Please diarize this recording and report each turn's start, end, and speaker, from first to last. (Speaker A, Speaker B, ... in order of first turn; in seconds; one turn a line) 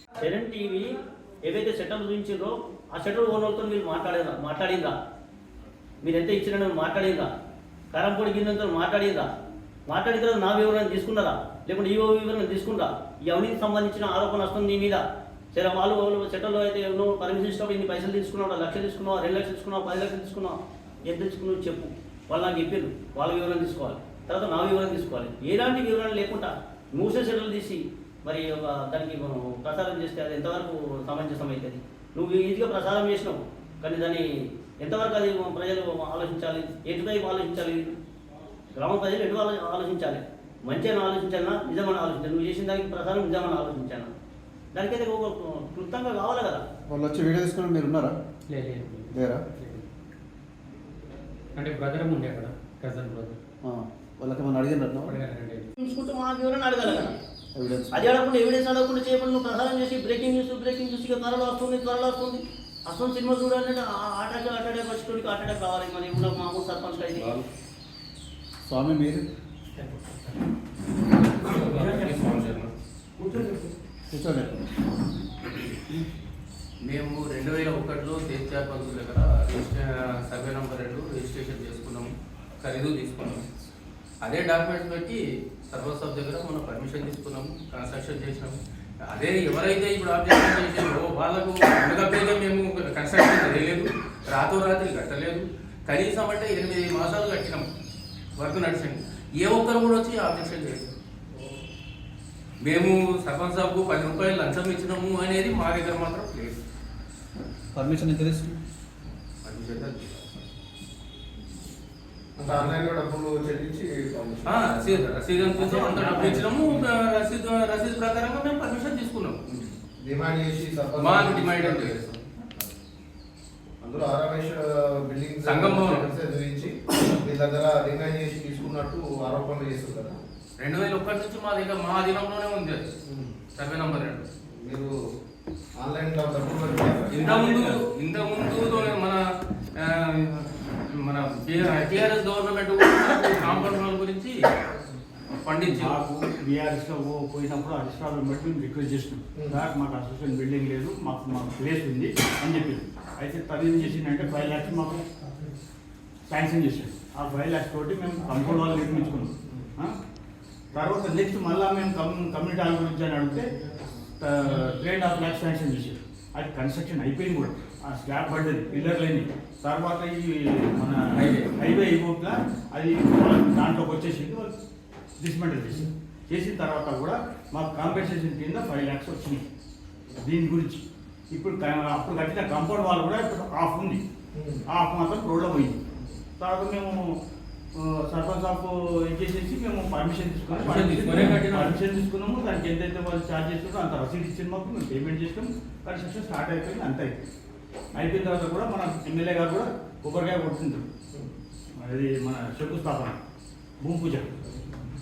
Speaker A: 0.2-4.9
Speaker A: 6.0-7.3
Speaker A: 7.9-9.3
Speaker A: 9.9-15.0
Speaker A: 15.5-37.9
Speaker A: 38.7-44.1
Speaker A: 44.7-46.6
Speaker B: 46.9-48.2
Speaker C: 48.5-49.9
Speaker B: 49.1-49.5
Speaker C: 51.5-53.4
Speaker B: 53.6-55.1
Speaker C: 55.1-55.7
Speaker A: 55.8-57.2
Speaker B: 57.5-58.1
Speaker A: 57.9-67.3
Speaker B: 68.6-69.2
Speaker D: 71.4-72.7
Speaker A: 71.5-72.3
Speaker A: 73.2-73.7
Speaker B: 74.1-74.6
Speaker D: 76.8-83.5
Speaker D: 84.2-97.6
Speaker D: 98.4-100.9
Speaker D: 102.6-106.6
Speaker B: 107.7-108.6
Speaker D: 109.4-110.2
Speaker E: 112.4-115.0
Speaker D: 114.4-119.6
Speaker C: 115.6-116.7
Speaker E: 119.9-121.9
Speaker D: 121.0-122.3
Speaker E: 123.8-130.2
Speaker D: 125.4-126.1
Speaker D: 130.6-132.9
Speaker D: 133.5-134.3
Speaker E: 134.4-134.9
Speaker E: 135.8-137.3
Speaker D: 137.1-139.2
Speaker F: 137.4-137.7
Speaker D: 139.8-144.3
Speaker D: 145.4-146.0
Speaker F: 145.6-155.0
Speaker E: 149.3-149.7
Speaker F: 156.3-159.9
Speaker F: 160.7-163.4
Speaker F: 164.2-174.5
Speaker D: 171.1-171.5
Speaker F: 175.2-179.4
Speaker F: 180.2-184.0
Speaker E: 184.3-184.6
Speaker F: 184.7-185.8
Speaker F: 186.4-187.2
Speaker F: 187.7-197.1
Speaker D: 190.5-191.7
Speaker F: 197.9-200.9
Speaker F: 201.8-203.2
Speaker F: 203.8-204.4